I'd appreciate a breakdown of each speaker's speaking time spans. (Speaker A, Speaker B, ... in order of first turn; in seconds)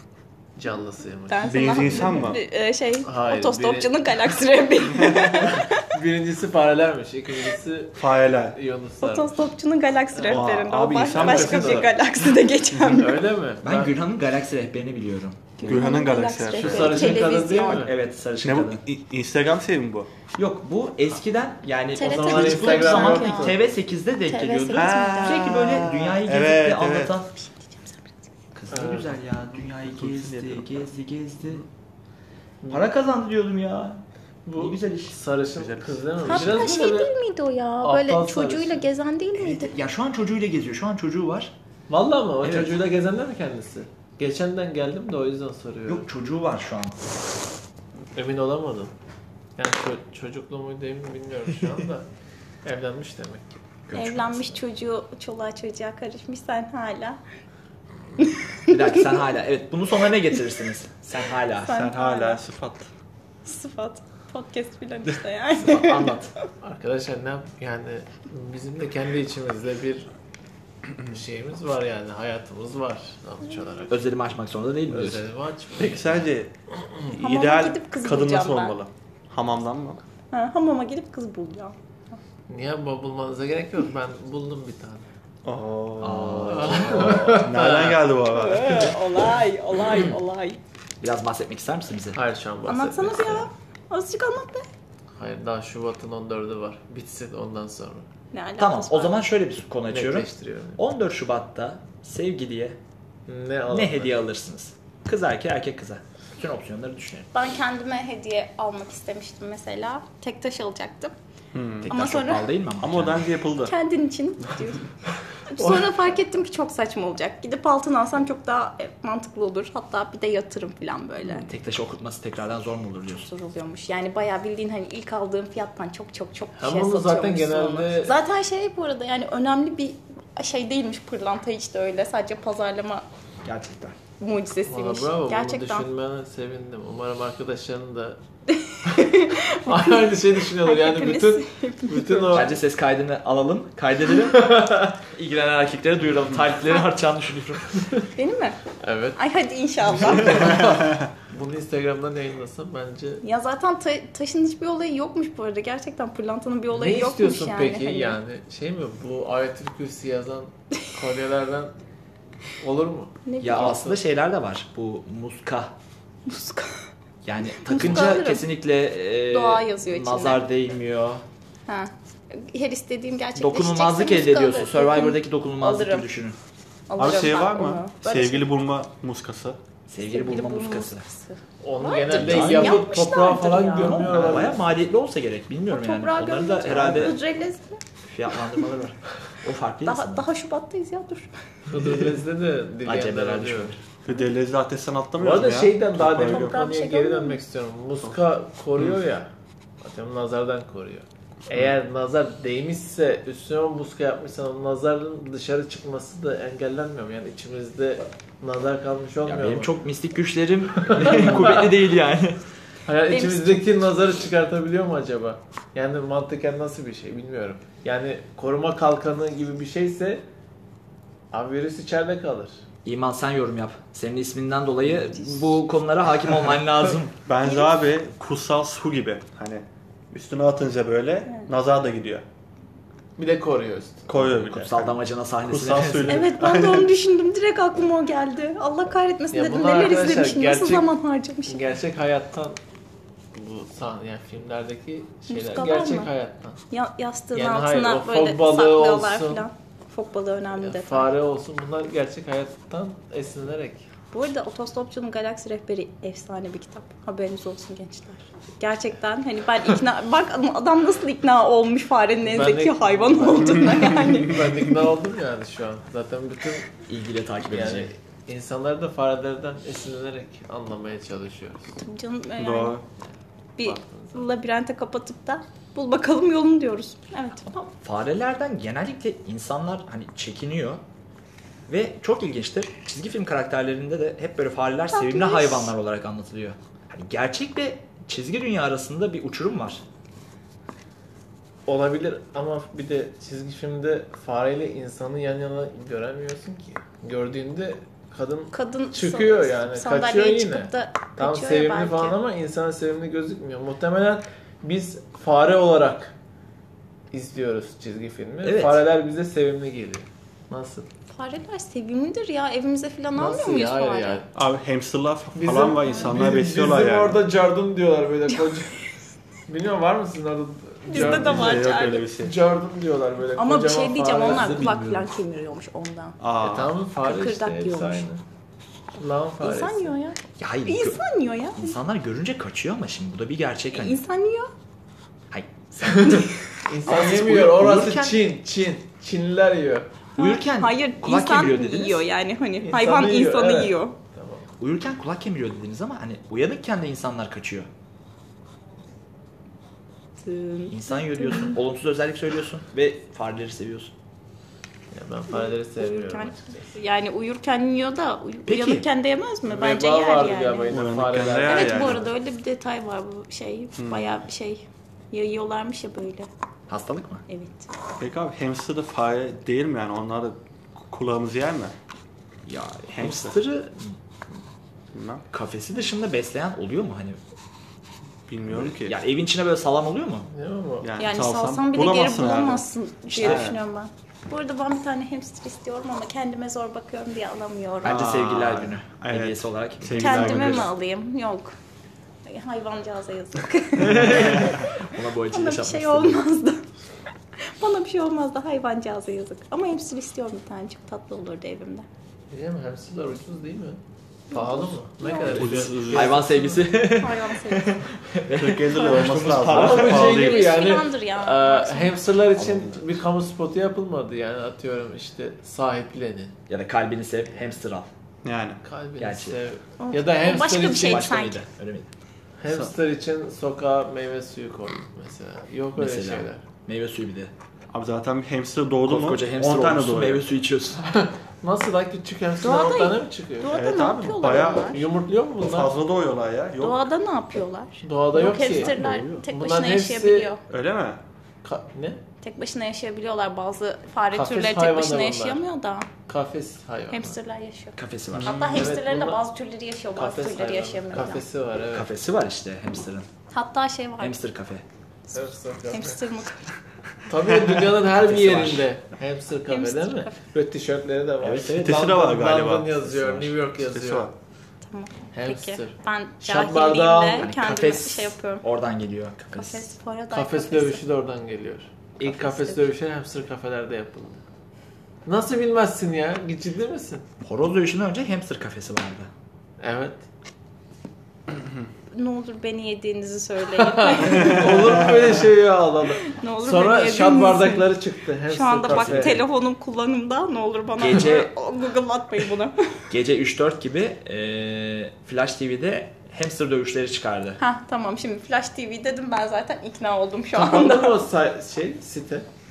Speaker A: 0.6-2.3, 3.0-3.9, 5.5-9.3, 10.1-10.4, 12.8-13.9, 16.6-17.9, 22.0-23.7, 28.7-29.1, 32.6-32.9, 34.5-37.1, 37.8-38.8, 41.9-46.1, 48.1-48.9, 49.6-52.0, 52.6-53.6, 65.5-70.1, 71.1-74.0, 74.9-76.2, 82.5-85.0, 86.5-88.0, 92.1-93.5, 95.2-98.0, 99.9-100.8, 103.3-104.2, 126.5-128.1, 134.6-138.2, 139.6-142.6, 144.3-144.9, 148.8-149.2, 149.8-153.2, 156.7-161.7, 162.6-164.0, 181.6-184.7, 191.7-193.7, 195.2-199.3, 199.8-209.7, 211.0-211.6, 212.8-220.2, 221.3-222.5, 233.2-234.1, 239.3-240.9, 241.4-242.6, 243.3-246.6, 247.3-249.5, 250.6-253.8, 262.2-266.8, 267.4-271.7, 273.6-274.2, 291.6-306.1, 307.1-310.9, 313.1-314.3, 315.3-318.8, 319.5-321.7, 322.2-324.7, 326.4-328.2, 328.9-329.9, 335.8-339.9, 342.6-344.5, 354.9-356.8, 359.4-362.0, 380.3-380.9, 394.0-394.5, 402.3-403.8, 404.3-406.7, 409.5-416.4, 418.6-421.0, 422.4-426.4, 430.9-433.5, 434.3-435.7, 437.8-440.3, 441.4-442.0, 444.1-445.4, 446.1-447.2, 448.5-449.2, 449.9-451.9, 455.1-456.0, 457.1-464.1, 465.1-467.3, 470.1-474.2, 475.1-477.0, 479.6-480.0, 483.6-489.2, 500.3-502.3
Speaker B: 1.3-5.8, 9.0-13.2, 15.6-17.9, 21.9-23.6, 24.2-25.5, 27.3-28.3, 36.2-39.7, 53.9-57.2, 58.2-59.0, 61.5-62.4, 63.4-66.2, 77.2-78.8, 80.3-82.2, 88.3-90.6, 92.7-94.7, 98.3-99.2, 107.3-111.1, 111.9-112.5, 113.6-114.9, 115.5-121.5, 123.2-133.0, 134.2-135.8, 138.5-142.5, 148.1-148.6, 149.2-150.7, 153.2-158.2, 163.2-163.8, 166.2-166.8, 167.6-168.5, 169.3-170.4, 171.7-176.1, 176.9-178.4, 180.0-184.3, 185.7-187.8, 189.8-191.3, 196.4-197.4, 213.1-213.7, 227.4-227.8, 236.1-241.6, 245.3-246.1, 246.7-251.1, 254.1-264.4, 271.8-272.8, 273.6-277.4, 284.9-285.7, 298.5-302.2, 311.1-314.2, 315.8-316.1, 320.9-322.0, 323.4-326.2, 327.0-328.1, 329.4-331.8, 333.7-334.5, 335.9-336.4, 340.2-343.9, 350.2-351.6, 355.3-360.7, 361.4-366.3, 367.3-367.7, 381.0-387.9, 390.0-391.5, 392.2-396.6, 397.6-401.9, 404.3-405.9, 406.4-407.8, 410.0-412.1, 419.8-421.4, 432.4-434.8, 436.6-440.4, 442.2-445.9, 446.9-451.2, 453.3-454.2, 455.1-456.5, 459.5-460.2, 464.6-468.4, 469.3-470.8, 472.0-472.7, 481.9-484.9, 486.0-487.8, 488.3-492.6, 497.4-501.0
Speaker C: 1.4-2.4, 8.0-8.6, 10.3-11.9, 15.6-17.2, 18.4-20.1, 24.7-27.1, 29.7-30.7, 35.5-36.0, 61.7-62.9, 75.8-76.5, 77.1-80.0, 85.4-89.0, 111.5-111.9, 112.8-113.7, 177.0-179.6, 194.0-196.6, 227.2-232.2, 234.1-236.9, 272.4-272.8, 314.3-317.2, 320.9-322.4, 326.2-326.7, 360.7-362.0, 363.8-364.1, 368.0-370.4, 370.9-371.7, 372.9-373.4, 374.9-375.2, 378.3-378.9, 380.8-382.6, 383.2-383.6, 387.8-390.7, 405.2-406.2, 408.4-410.6, 418.2-418.6, 427.7-430.2, 433.5-434.8, 435.4-436.8, 438.3-439.2, 440.5-441.0, 448.1-448.7, 461.5-464.1
Speaker D: 10.7-11.9, 13.6-15.8, 17.6-18.8, 20.3-27.3, 28.5-31.6, 32.7-34.0, 34.5-35.2, 36.3-36.7, 39.4-41.5, 42.4-42.8, 45.9-47.0, 53.9-54.5, 58.7-61.9, 73.9-75.2, 86.0-87.3, 91.0-92.2, 98.6-102.8, 103.7-107.3, 111.8-113.3, 121.2-123.3, 133.4-133.9, 142.3-144.6, 145.1-147.8, 163.4-165.7, 167.2-171.2, 173.3-176.4, 179.9-181.0, 182.1-187.2, 188.1-190.3, 192.8-193.8, 209.2-212.4, 222.8-227.1, 234.2-236.2, 266.9-267.9, 277.4-280.8, 281.7-289.8, 308.4-308.8, 324.2-325.1, 330.4-331.0, 331.6-334.0, 335.3-336.2, 336.8-338.2, 340.2-342.0, 344.6-347.7, 350.7-353.9, 358.5-358.9, 366.7-367.2, 372.4-373.9, 375.3-377.2, 378.5-380.3, 383.1-383.5, 387.8-390.7, 394.9-396.2, 405.9-410.2, 416.5-417.9, 419.0-419.4, 420.8-421.9, 425.8-427.3, 428.8-430.8, 447.8-448.4, 451.7-453.1, 454.0-454.6, 457.9-458.7, 461.2-461.7, 467.2-469.7, 477.2-479.1, 488.6-489.2, 490.8-491.3, 492.9-497.4